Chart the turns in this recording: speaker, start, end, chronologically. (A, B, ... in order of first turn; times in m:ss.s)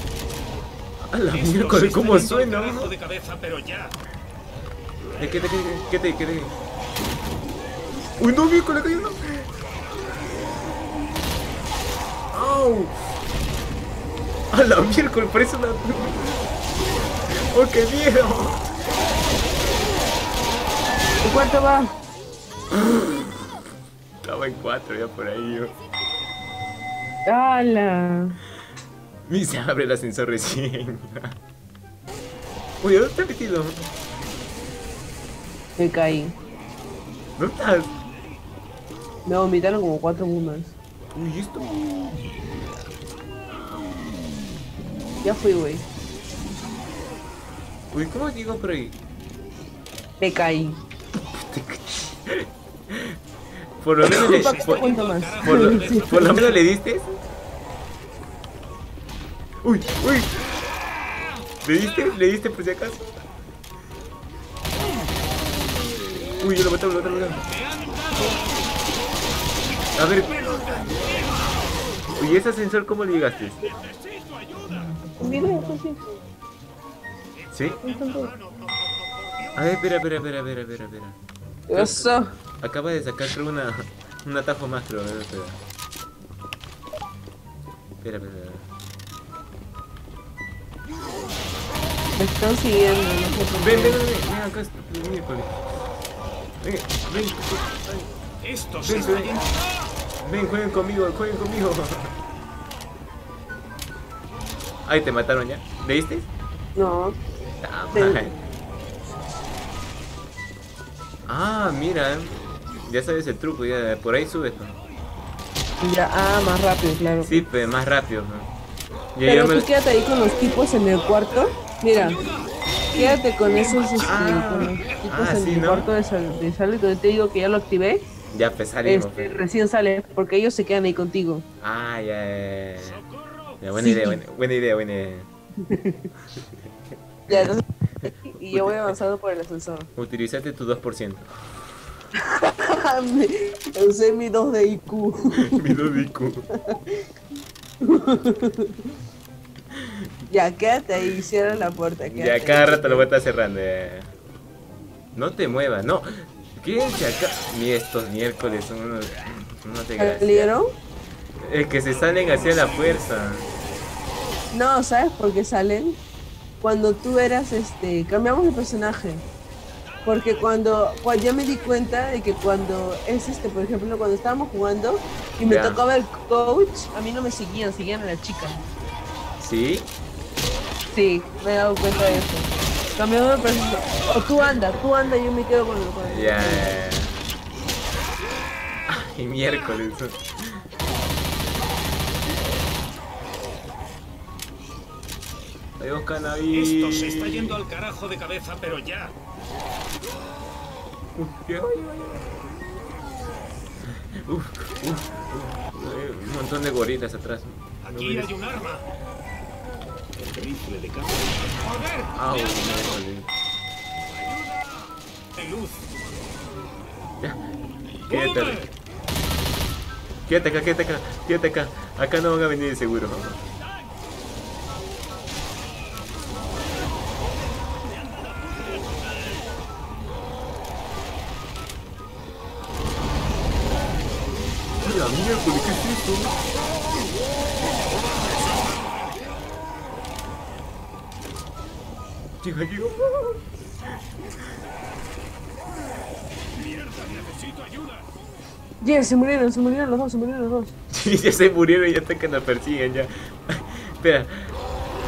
0:01.0-0:02.9 A
0:01.3-0:04.0 B
0:05.1-0:06.5 A
0:08.2-0:09.5 A
0:12.3-0:13.0 A
0:14.5-0:16.4 A
0:17.3-0:18.7 A
0:21.2-0:21.9 C
0:22.7-0:23.5 A
0:24.2-0:25.7 A
0:27.2-0:28.4 C
0:29.3-0:31.4 A
0:32.8-0:33.9 A
0:35.8-0:36.4 C
0:37.4-0:37.9 A
0:39.2-0:40.8 C
0:41.1-0:41.8 A
0:45.2-0:45.8 C
0:47.9-0:48.9 A
0:50.2-0:50.8 C
0:51.2-0:53.2 A
0:53.8-0:54.9 A
0:54.0-0:56.5 C
0:54.2-0:56.6 B
0:55.4-0:57.2 A
0:59.6-1:00.5 A
1:01.6-1:03.1 A
1:06.4-1:07.4 A
1:07.5-1:08.6 B
1:10.0-1:10.5 A
1:10.0-1:11.6 B
1:12.1-1:13.7 A
1:13.6-1:15.1 B
1:15.1-1:16.2 C
1:17.4-1:19.6 B
1:17.8-1:18.3 C
1:19.6-1:21.2 A
1:21.7-1:22.3 C
1:21.7-1:25.6 A
1:28.0-1:28.7 A
1:32.2-1:34.0 C
1:33.6-1:35.6 A
1:36.6-1:38.1 A
1:38.4-1:39.9 B
1:38.8-1:39.4 A
1:40.2-1:42.1 A
1:44.8-1:46.3 A
1:46.7-1:47.2 C
1:47.6-1:48.4 A
1:47.9-1:48.2 C
1:51.3-1:54.8 A
1:55.8-1:57.4 C
1:57.2-1:58.5 A
1:59.1-1:59.7 A
1:59.2-2:02.2 C
2:02.0-2:05.0 B
2:02.9-2:08.0 C
2:04.0-2:05.9 A
2:08.3-2:09.4 A
2:08.8-2:11.4 C
2:11.6-2:13.0 A
2:12.8-2:13.6 B
2:13.6-2:15.3 A
2:13.8-2:14.2 C
2:15.6-2:16.1 C
2:17.3-2:19.9 C
2:18.0-2:18.9 A
2:20.0-2:21.3 A
2:22.1-2:25.7 C
2:25.3-2:26.4 A
2:26.5-2:27.1 C
2:27.8-2:28.9 C
2:29.7-2:30.1 A
2:30.3-2:33.1 C
2:32.1-2:34.1 A
2:35.2-2:40.5 A
2:40.0-2:40.7 C
2:41.4-2:43.5 A
2:41.9-2:43.0 B
2:44.5-2:46.0 C
2:46.6-2:49.2 C
2:50.0-2:58.6 C
2:55.4-2:55.8 A
2:59.4-2:59.9 A
3:00.9-3:06.7 C
3:06.0-3:07.2 A
3:08.9-3:10.6 A
3:15.8-3:17.6 A
3:16.5-3:19.2 B
3:21.2-3:22.3 A
3:23.9-3:28.3 A
3:27.8-3:28.8 B
3:30.3-3:32.9 B
3:32.1-3:33.3 A
3:34.1-3:35.9 B
3:38.1-3:38.6 A
3:38.1-3:38.7 B
3:40.3-3:43.4 A
3:54.8-3:56.4 A
4:02.4-4:03.4 A
4:06.6-4:08.1 B
4:08.8-4:10.7 C
4:10.9-4:14.6 A